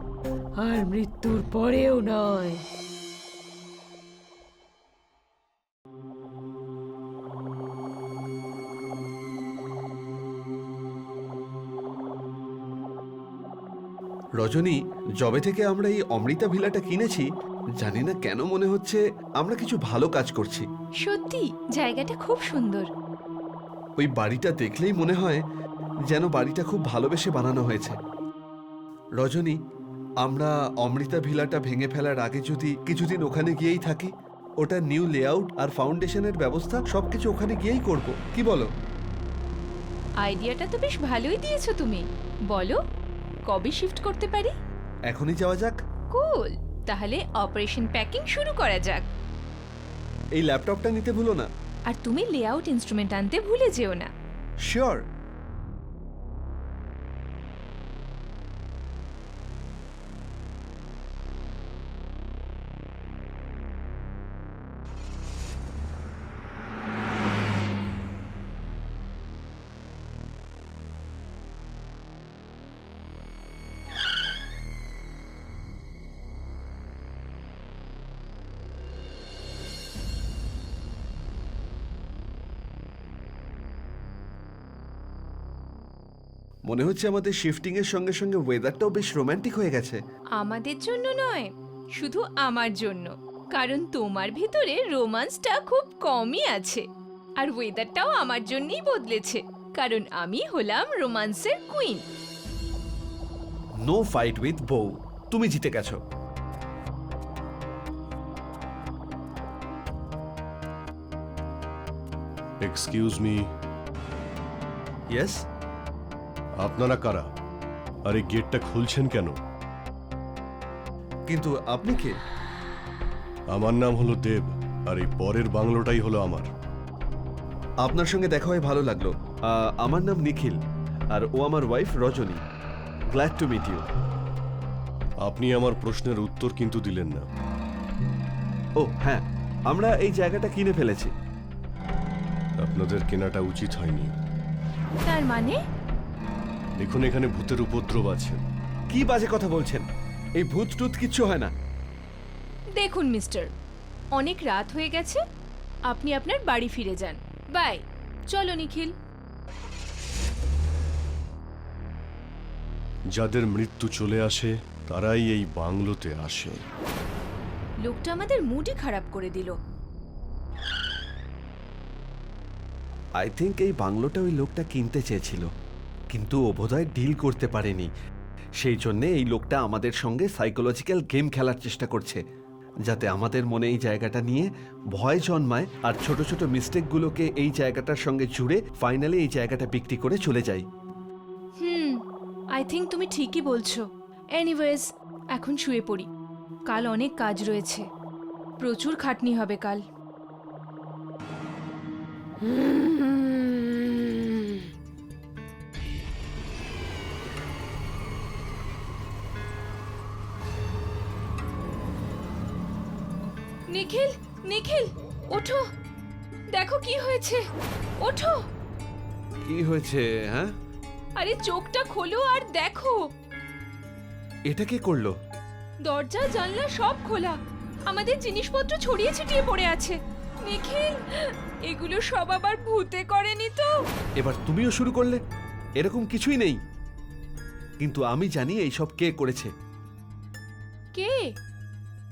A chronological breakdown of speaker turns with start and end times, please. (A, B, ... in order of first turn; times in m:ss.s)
0:00.6-0:02.6 A
0:14.4-0:17.3 B
0:17.8-0:20.7 B
0:21.0-0:22.9 C
0:24.0-0:25.4 B
0:26.1-0:28.0 B
0:29.2-0:29.6 B
0:30.2-0:38.7 B
0:40.2-0:42.8 C
0:43.5-0:44.5 C
0:45.1-0:45.8 B
0:46.1-0:49.1 C
0:50.4-0:51.5 B
0:51.9-0:54.1 C
0:54.7-0:55.0 B
1:26.7-1:30.0 B
1:30.4-1:36.8 C
1:37.4-1:42.0 C
1:43.8-1:46.0 B
1:52.6-1:53.4 D
1:56.6-1:57.3 D
1:58.1-1:59.4 D
2:01.3-2:02.1 B
2:03.5-2:06.5 D
2:07.8-2:10.6 B
2:11.1-2:12.4 B
2:13.1-2:13.9 B
2:15.2-2:17.2 D
2:18.8-2:21.1 B
2:22.6-2:24.1 D
2:25.0-2:25.6 C
2:26.8-2:28.4 D
2:28.9-2:29.9 B
2:30.4-2:31.5 B
2:32.8-2:33.5 C
2:34.2-2:35.2 C
2:35.9-2:38.9 C
2:43.2-2:46.6 D
2:47.8-2:49.5 C
2:53.2-2:55.5 B
2:56.1-2:57.9 B
2:58.6-3:02.2 B
3:02.9-3:10.6 B
3:11.6-3:12.0 C
3:12.5-3:13.8 C
3:14.4-3:16.1 C
3:16.7-3:17.8 C
3:18.6-3:19.8 C
3:22.4-3:24.6 A
3:33.7-3:35.6 C
3:36.5-3:37.4 C
3:38.0-3:38.4 C
3:39.4-3:40.5 B
3:41.2-3:43.0 C
3:44.5-3:45.1 B
3:45.8-3:47.4 C
3:47.9-3:53.7 C
3:54.2-3:55.2 B
3:55.8-3:56.6 B
3:57.8-3:59.5 B
4:00.9-4:01.3 C